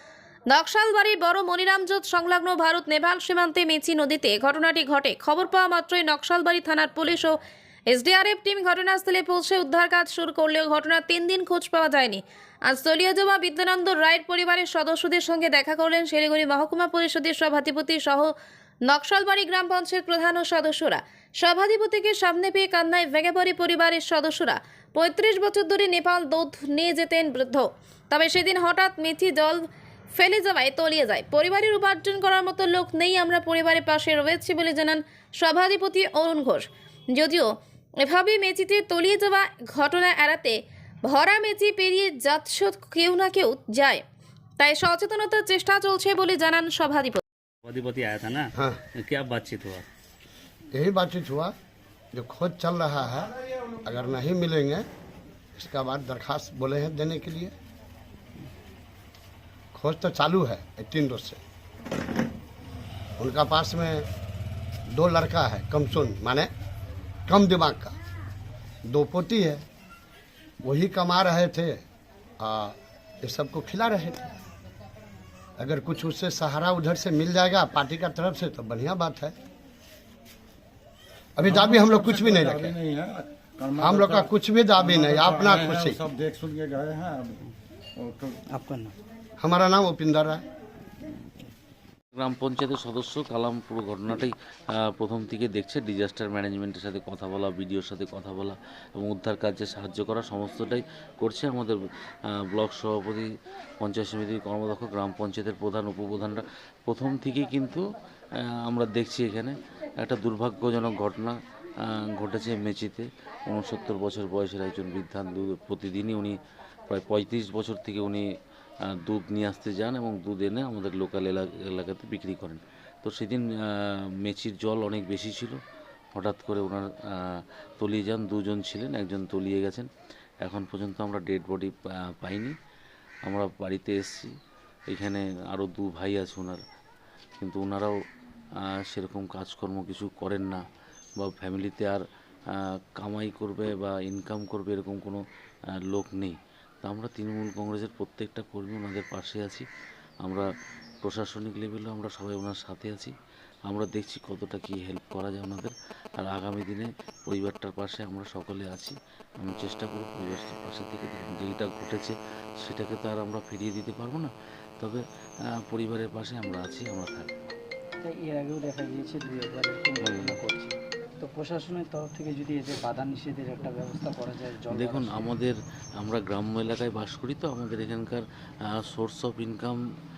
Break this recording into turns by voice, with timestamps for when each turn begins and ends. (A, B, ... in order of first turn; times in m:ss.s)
0:00.5-0:07.4 A
0:07.9-0:18.3 A
0:18.9-0:29.6 A
0:30.2-0:37.5 A
0:38.0-0:44.0 A
0:44.6-0:47.2 A
0:47.6-0:49.9 B
0:50.7-0:51.5 C
0:52.1-0:54.8 C
0:55.6-0:57.5 C
0:59.7-1:01.4 C
1:03.2-1:04.1 C
1:04.9-1:06.5 C
1:07.3-1:08.0 C
1:08.9-1:09.6 C
1:10.6-1:11.8 C
1:12.4-1:14.3 C
1:15.6-1:19.3 C
1:21.4-1:22.8 C
1:21.5-1:27.4 D
1:23.8-1:26.0 C
1:28.0-1:28.4 D
1:28.5-1:29.0 E
1:29.4-1:30.4 C
1:32.1-1:41.8 F
1:42.4-1:43.3 F
1:43.8-1:47.8 F
1:48.4-1:58.3 F
1:58.9-2:05.6 F
2:06.1-2:09.9 F
2:10.4-2:12.5 F
2:13.3-2:14.3 F
2:14.9-2:16.6 F
2:17.4-2:18.0 F
2:18.7-2:20.6 F
2:21.2-2:25.2 F
2:25.9-2:29.7 F
2:31.0-2:33.1 F
2:33.7-2:45.0 F
2:45.6-2:47.4 F
2:48.0-2:55.3 E
2:50.0-2:50.4 F
2:54.7-2:59.8 F